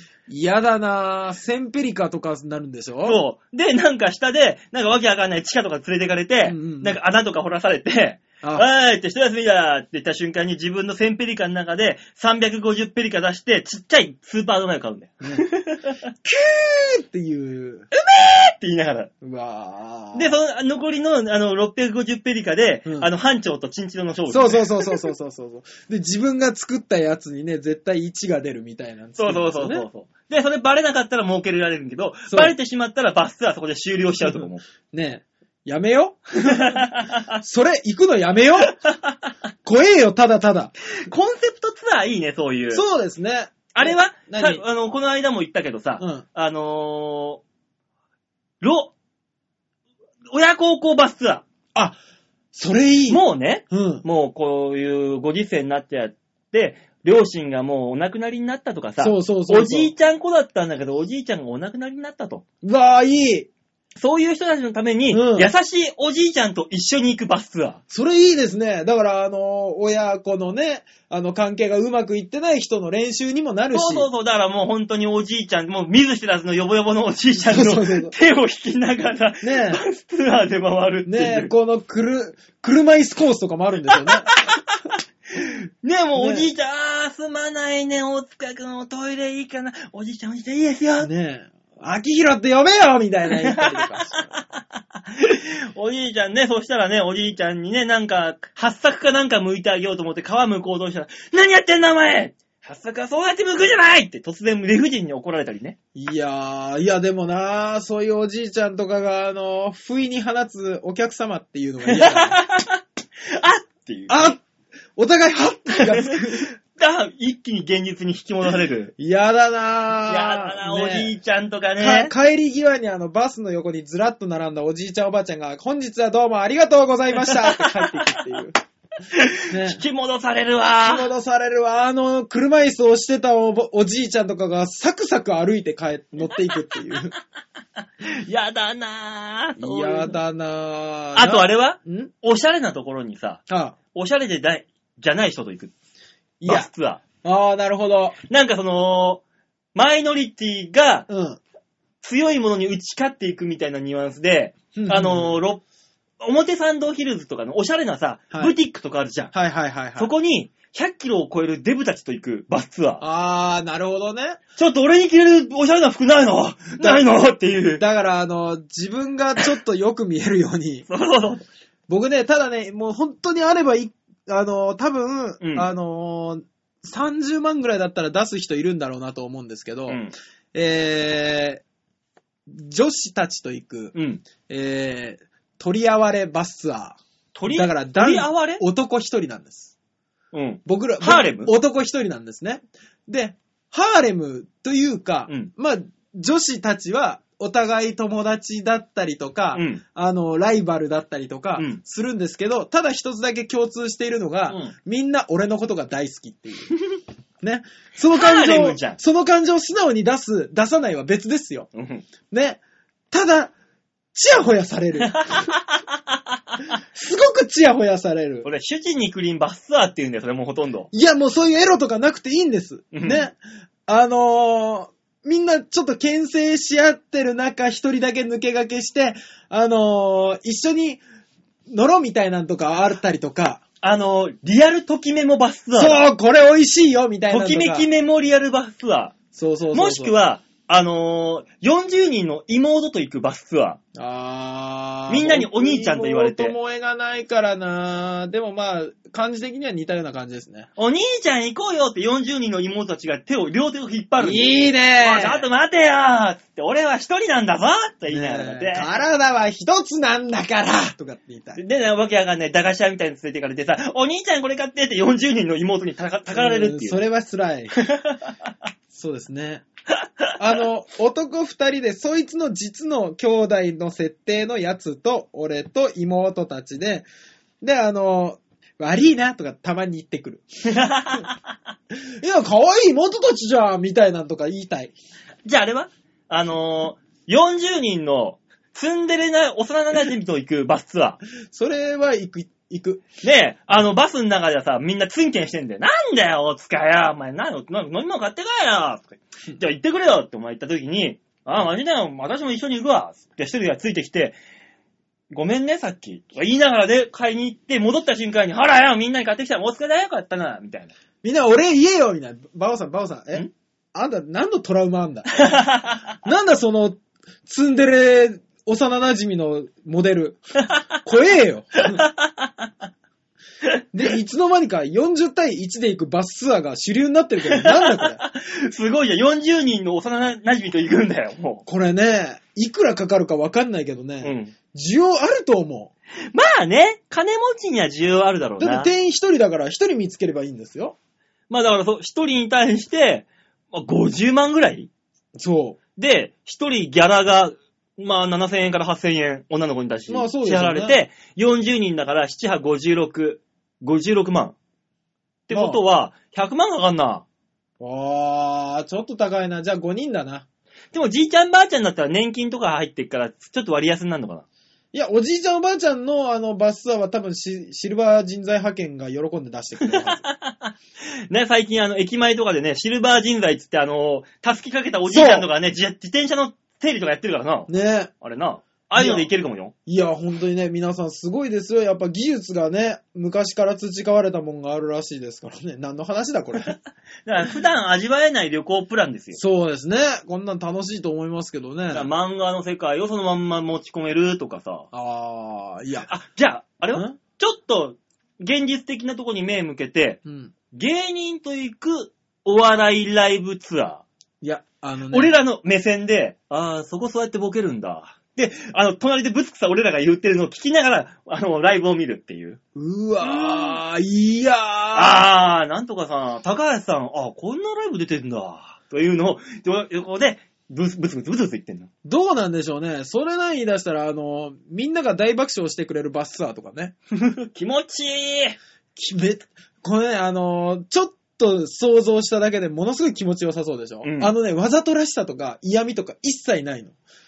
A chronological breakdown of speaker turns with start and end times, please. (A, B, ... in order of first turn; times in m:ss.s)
0:00.3-0:03.2 A
0:03.0-0:16.0 B
0:06.4-0:07.0 A
0:16.2-0:17.9 A
0:17.9-0:19.1 B
0:19.2-0:20.3 A
0:20.1-0:25.0 B
0:24.3-0:29.9 A
0:29.2-0:34.6 B
0:32.3-0:32.5 A
0:34.2-0:38.8 A
0:36.4-0:37.4 B
0:38.8-0:39.3 B
0:39.6-0:40.7 A
0:41.0-0:42.8 B
0:42.7-0:44.6 A
0:43.7-0:47.4 B
0:46.0-0:46.2 A
0:48.6-0:48.9 B
0:50.3-0:51.4 B
0:52.5-0:54.0 A
0:53.1-1:02.4 B
0:59.0-0:59.9 A
1:02.6-1:03.5 A
1:04.0-1:07.8 B
1:05.1-1:05.5 A
1:07.9-1:14.1 A
1:13.7-1:21.5 B
1:17.3-1:18.1 A
1:19.4-1:19.8 A
1:21.0-1:24.3 A
1:23.9-1:24.6 B
1:25.3-1:31.1 B
1:26.2-1:26.5 A
1:31.0-1:34.3 A
1:33.3-1:45.8 B
1:45.9-1:52.4 A
1:51.9-1:52.8 B
1:53.3-1:54.4 B
1:54.1-1:54.4 A
1:55.0-1:56.5 A
1:55.7-1:58.9 B
1:59.0-2:01.1 A
2:00.1-2:02.1 B
2:01.8-2:08.5 A
2:07.2-2:08.2 B
2:09.1-2:11.1 B
2:09.5-2:09.8 A
2:10.8-2:17.1 A
2:18.0-2:20.2 B
2:19.6-2:22.1 A
2:21.2-2:23.4 B
2:23.5-2:23.8 A
2:23.9-2:25.7 B
2:26.4-2:26.7 A
2:26.4-2:27.0 B
2:27.2-2:28.2 A
2:28.3-2:29.2 B
2:29.7-2:31.1 B
2:31.1-2:31.4 A
2:32.0-2:35.6 B
2:34.7-2:35.4 A
2:36.2-2:39.3 B
2:39.3-2:40.1 A
2:40.0-2:43.0 B
2:43.0-2:44.4 A
2:44.6-2:47.8 B
2:46.8-2:47.1 A
2:47.8-2:50.8 A
2:50.9-2:51.4 B
2:51.9-3:00.0 A
2:55.4-2:55.7 B
2:59.9-3:00.1 B
3:00.5-3:01.6 A
3:02.5-3:09.7 A
3:03.9-3:04.2 B
3:07.3-3:08.6 B
3:10.3-3:11.5 B
3:10.6-3:26.7 A
3:19.5-3:19.8 B
3:24.5-3:24.7 B
3:27.4-3:31.7 A
3:28.1-3:29.0 B
3:31.7-3:32.1 B
3:32.3-3:32.6 A
3:33.1-3:33.5 A
3:34.1-3:35.5 A
3:35.1-3:35.8 B
3:36.9-3:38.4 A
3:38.4-3:40.9 B
3:40.9-3:51.0 A
3:42.9-3:43.2 B
3:51.7-3:53.6 A
3:53.8-3:56.0 B
3:55.7-3:57.9 A
3:57.3-3:59.2 B
3:59.3-4:00.2 A
3:59.7-4:03.8 B
4:03.9-4:10.7 A
4:05.1-4:06.5 B
4:10.8-4:18.9 B
4:14.2-4:15.4 A
4:18.1-4:21.6 A
4:21.6-4:27.0 B
4:26.3-4:27.8 A
4:27.8-4:28.3 B
4:28.9-4:29.6 A
4:30.0-4:30.3 B
4:30.4-4:37.1 A
4:37.6-4:40.4 A
4:40.7-4:41.4 B
4:42.1-4:44.9 A
4:45.4-4:51.2 B
4:51.5-4:53.0 A
4:53.2-5:04.4 B
5:05.3-5:10.9 B
5:11.2-5:15.4 A
5:15.4-5:16.1 B
5:16.2-5:20.4 A
5:21.0-5:22.0 A
5:21.9-5:22.7 B
5:23.9-5:28.2 A
5:27.5-5:31.6 B
5:31.7-5:35.9 A
5:34.2-5:34.5 B
5:36.3-5:38.9 B
5:38.6-5:41.0 A
5:41.5-5:44.9 B
5:45.4-5:45.8 A
5:46.0-5:54.6 B
5:50.1-5:51.0 A
5:55.5-5:57.2 B
5:55.5-5:55.8 A
5:57.8-6:00.4 A
6:00.9-6:04.4 B
6:04.9-6:10.2 A
6:09.9-6:10.7 B
6:11.3-6:17.7 B
6:15.1-6:15.5 A
6:17.7-6:18.1 A
6:18.2-6:19.7 B
6:19.0-6:19.3 A
6:19.9-6:26.7 A
6:27.2-6:29.4 B
6:29.4-6:32.1 A
6:31.9-6:34.9 B
6:34.9-6:36.1 A
6:36.0-6:40.2 B
6:36.9-6:37.2 A
6:40.2-6:40.5 A
6:40.7-6:44.0 B
6:44.4-6:45.3 A
6:45.1-6:52.6 B
6:52.7-6:55.2 A
6:53.2-6:53.8 B
6:54.9-7:01.9 B
7:02.0-7:06.9 A
7:07.1-7:08.6 B
7:09.0-7:16.9 A
7:14.0-7:14.3 B